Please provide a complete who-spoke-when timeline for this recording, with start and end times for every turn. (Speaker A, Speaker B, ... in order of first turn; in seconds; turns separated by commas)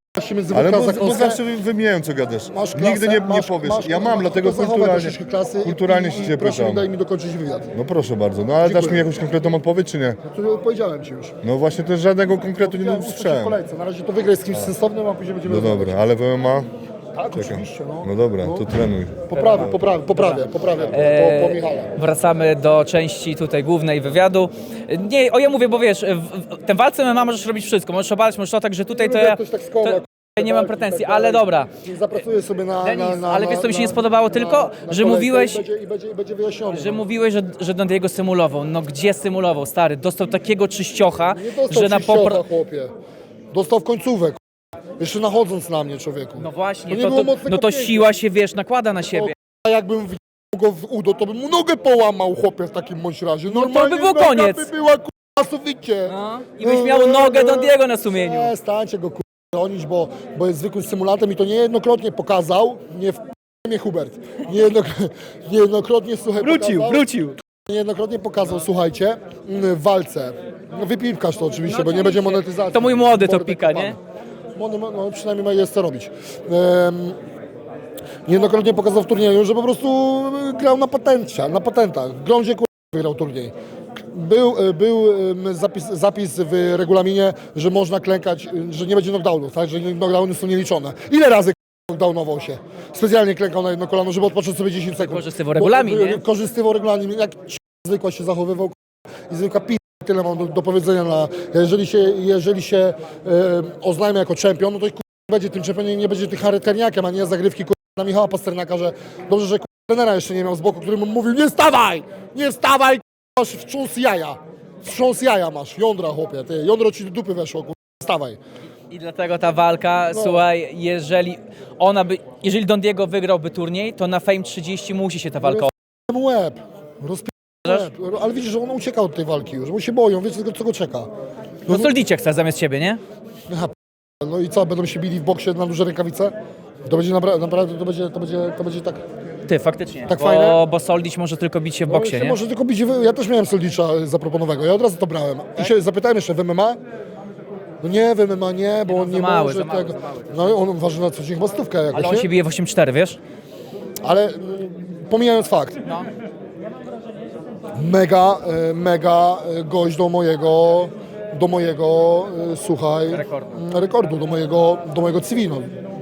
Speaker A: 0.1-1.4, Speaker B: 0.5-6.8, Speaker A: 2.5-7.7, Speaker B: 7.7-10.2, Speaker A: 8.6-9.1, Speaker A: 10.2-11.3, Speaker B: 11.4-13.6, Speaker A: 12.6-16.0, Speaker B: 15.5-16.7, Speaker A: 17.1-18.7, Speaker B: 17.4-19.2, Speaker A: 19.2-21.9, Speaker C: 19.3-31.7, Speaker A: 28.9-37.0, Speaker C: 32.8-35.6, Speaker C: 36.7-42.4, Speaker A: 41.3-42.9, Speaker A: 43.5-44.4, Speaker A: 45.0-48.2, Speaker C: 46.4-49.3, Speaker A: 49.1-74.0, Speaker C: 53.5-54.7, Speaker C: 56.1-58.5, Speaker C: 66.4-67.4, Speaker C: 71.7-74.0, Speaker A: 74.5-77.2, Speaker A: 78.2-98.8, Speaker C: 95.0-96.2, Speaker A: 99.3-118.4, Speaker C: 118.9-125.7, Speaker A: 120.1-120.4, Speaker A: 125.4-131.1, Speaker A: 131.7-131.9, Speaker C: 131.7-133.0, Speaker A: 133.5-136.3, Speaker A: 136.8-139.0, Speaker C: 139.4-142.4, Speaker A: 140.1-140.6, Speaker A: 141.9-146.8, Speaker A: 147.8-152.3, Speaker C: 148.9-150.6, Speaker C: 151.9-153.2, Speaker A: 154.0-155.8, Speaker A: 157.8-165.7, Speaker C: 163.1-163.5